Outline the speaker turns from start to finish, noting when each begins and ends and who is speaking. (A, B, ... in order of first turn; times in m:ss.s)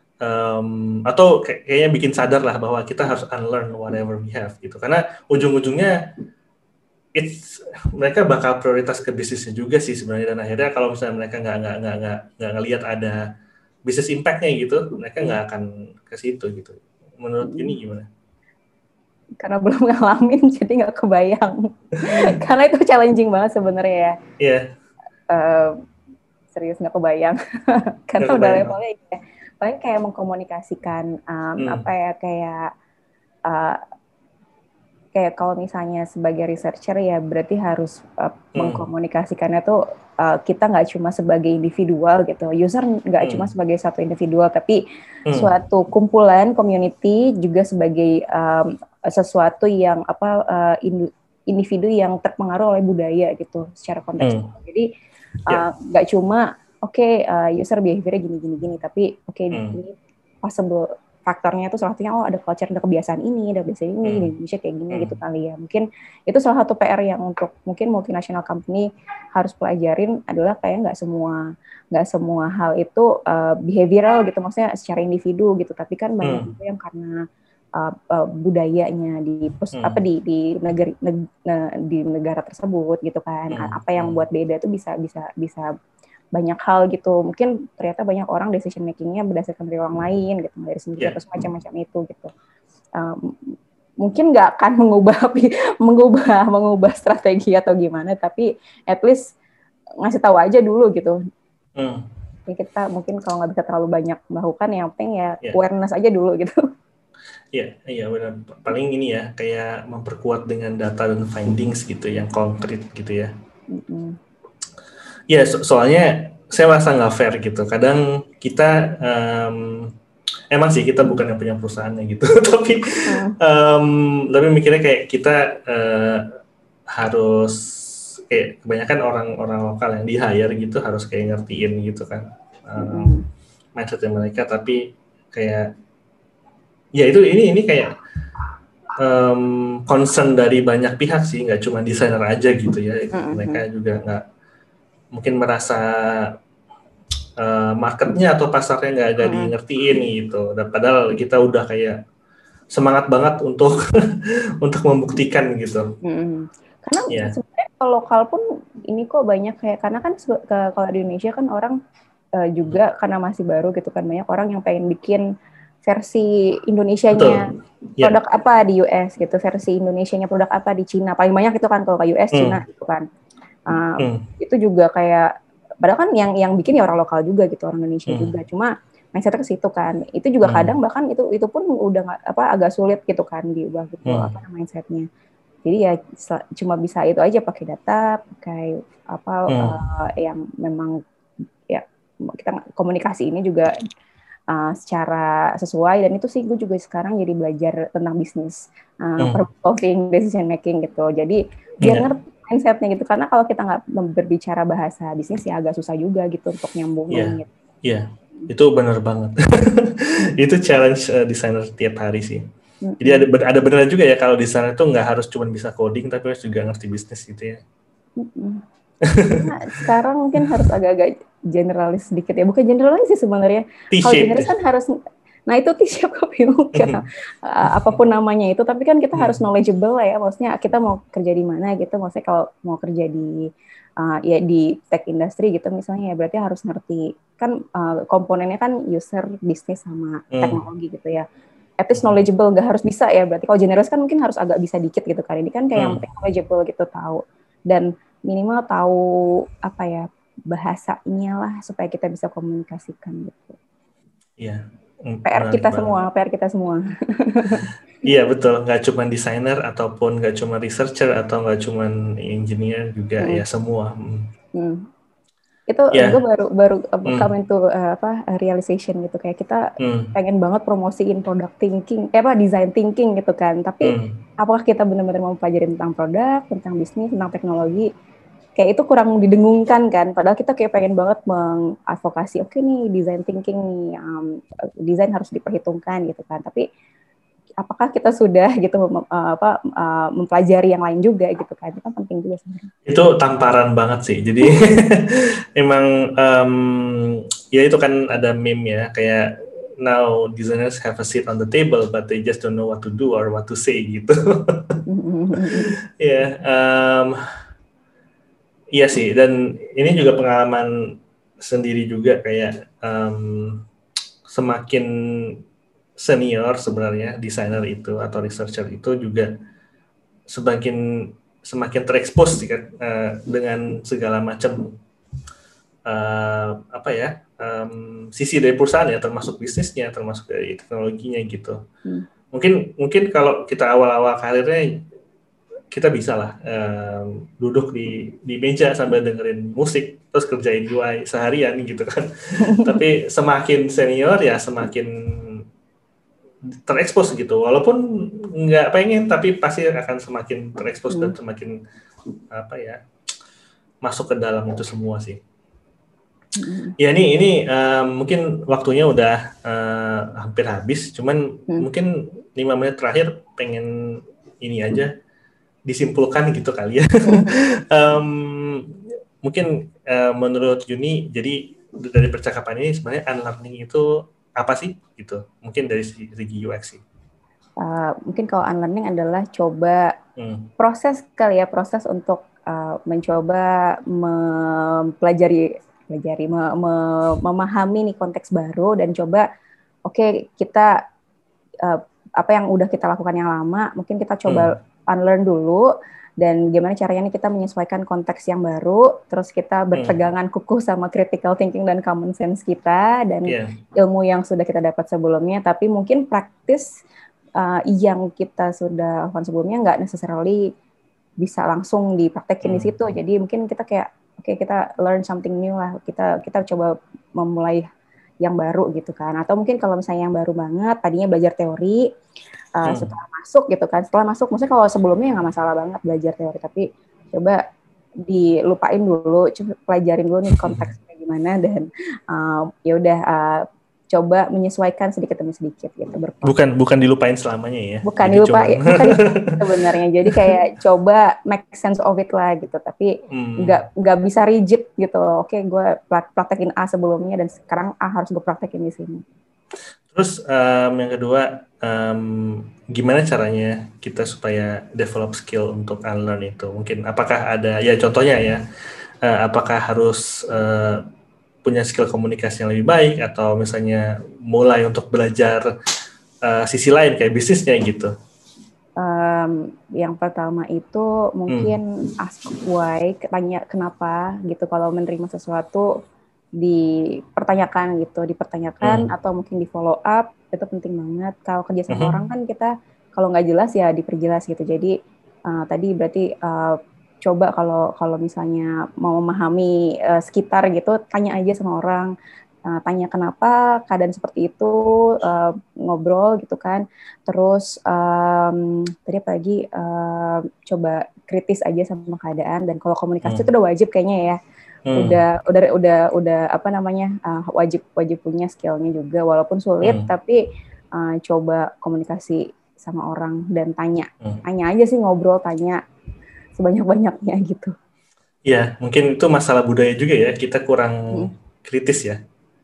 0:00.2-0:06.0 A
0:07.2-0:13.2 A
0:13.8-0:18.1 A
0:17.4-0:17.8 B
0:19.4-0:24.2 B
0:24.4-0:24.6 A
0:25.3-0:25.8 B
0:26.5-0:27.4 B
0:28.1-0:32.7 B
0:28.2-0:28.8 A
0:31.6-0:31.9 A
0:33.5-0:33.8 B
0:35.1-0:44.8 B
0:38.6-0:38.9 A
0:43.2-0:43.5 A
0:45.3-0:54.9 B
0:54.2-0:54.5 A
0:55.5-1:11.4 B
0:59.5-0:59.8 A
1:04.0-1:04.3 A
1:04.9-1:05.2 A
1:11.9-1:17.2 B
1:16.2-1:16.5 A
1:17.8-1:25.7 B
1:19.8-1:20.0 A
1:23.5-1:24.2 A
1:26.3-1:32.3 B
1:33.0-1:33.5 B
1:34.0-1:39.3 B
1:40.0-1:41.2 B
1:41.8-1:42.0 A
1:42.5-1:46.6 B
1:47.5-1:53.3 A
1:53.7-1:54.2 B
1:55.3-1:59.9 A
2:00.5-2:06.3 A
2:03.0-2:03.4 B
2:06.9-2:07.6 A
2:08.3-2:13.1 A
2:12.8-2:13.2 B
2:13.7-2:15.7 A
2:17.0-2:17.9 A
2:19.0-2:24.2 A
2:23.1-2:23.6 B
2:25.1-2:26.4 A
2:27.4-2:32.0 A
2:29.2-2:29.5 B
2:32.7-2:35.9 A
2:36.0-2:41.8 B
2:37.1-2:37.4 A
2:42.4-2:45.2 B
2:45.9-2:47.5 B
2:47.1-2:47.4 A
2:48.0-2:53.0 B
2:52.3-2:52.6 A
2:53.7-2:55.3 B
2:54.0-2:54.2 A
2:55.8-3:05.0 B
2:58.1-2:58.3 A
3:00.4-3:00.7 A
3:04.0-3:04.3 A
3:05.6-3:11.0 B
3:09.5-3:09.8 A
3:11.7-3:13.7 B
3:14.5-3:27.5 B
3:21.8-3:22.1 A
3:27.1-3:32.4 A
3:32.8-3:33.2 B
3:33.0-3:37.6 A
3:38.2-3:38.6 B
3:39.0-3:39.5 A
3:39.3-3:44.9 B
3:43.9-3:44.5 A
3:45.5-3:53.4 B
3:46.7-3:47.0 A
3:47.7-3:48.0 A
3:49.2-3:49.4 A
3:54.0-4:01.2 B
4:00.3-4:00.6 A
4:01.8-4:13.6 B
4:02.0-4:02.2 A
4:05.8-4:06.0 A
4:14.4-4:15.9 A
4:15.2-4:17.7 B
4:17.6-4:24.3 A
4:23.2-4:23.4 B
4:24.5-4:24.9 B
4:25.7-4:37.9 B
4:25.9-4:26.2 A
4:29.8-4:30.1 A
4:33.8-4:34.2 A
4:38.6-4:46.6 B
4:47.6-4:52.7 B
4:52.9-4:59.3 A
4:59.8-5:04.8 A
5:04.9-5:05.7 B
5:05.4-5:07.2 A
5:08.7-5:10.7 A
5:11.4-5:13.6 A
5:14.3-5:15.4 A
5:16.0-5:19.3 A
5:20.3-5:24.7 A
5:25.9-5:31.6 A
5:32.3-5:34.8 A
5:35.7-5:45.4 A
5:42.4-5:42.8 B
5:46.6-5:51.6 A
5:52.3-5:52.8 A
5:53.8-5:55.2 A
5:56.4-5:56.7 B
5:56.8-6:03.7 A
6:04.4-6:04.9 A
6:05.7-6:16.8 A
6:07.0-6:07.3 B
6:17.6-6:19.9 B
6:20.2-6:20.5 A
6:20.6-6:29.3 B
6:29.9-6:30.7 B
6:31.6-6:35.7 B
6:34.3-6:34.5 A
6:36.2-6:46.8 B
6:39.7-6:40.0 A
6:43.3-6:43.5 A
6:47.4-6:50.4 B
6:51.2-6:57.6 B
6:52.4-6:52.7 A
6:58.2-7:01.9 B
7:02.6-7:07.4 B
7:02.6-7:02.9 A
7:08.0-7:16.3 B
7:10.3-7:10.6 A
7:16.2-7:19.5 A
7:17.8-7:29.0 B
7:20.1-7:20.3 A
7:23.1-7:23.6 A
7:29.9-7:38.4 A
7:39.0-7:40.8 A
7:41.4-7:45.5 A
7:46.2-7:47.9 A
7:48.8-7:55.7 B
7:51.3-7:51.6 A
7:56.4-8:04.7 B
7:58.6-7:58.9 A
8:05.3-8:11.9 B
8:12.5-8:24.2 B
8:24.7-8:25.0 A
8:24.7-8:30.2 B
8:29.6-8:29.9 A
8:30.7-8:35.6 B
8:36.4-8:37.5 B
8:38.3-8:42.0 A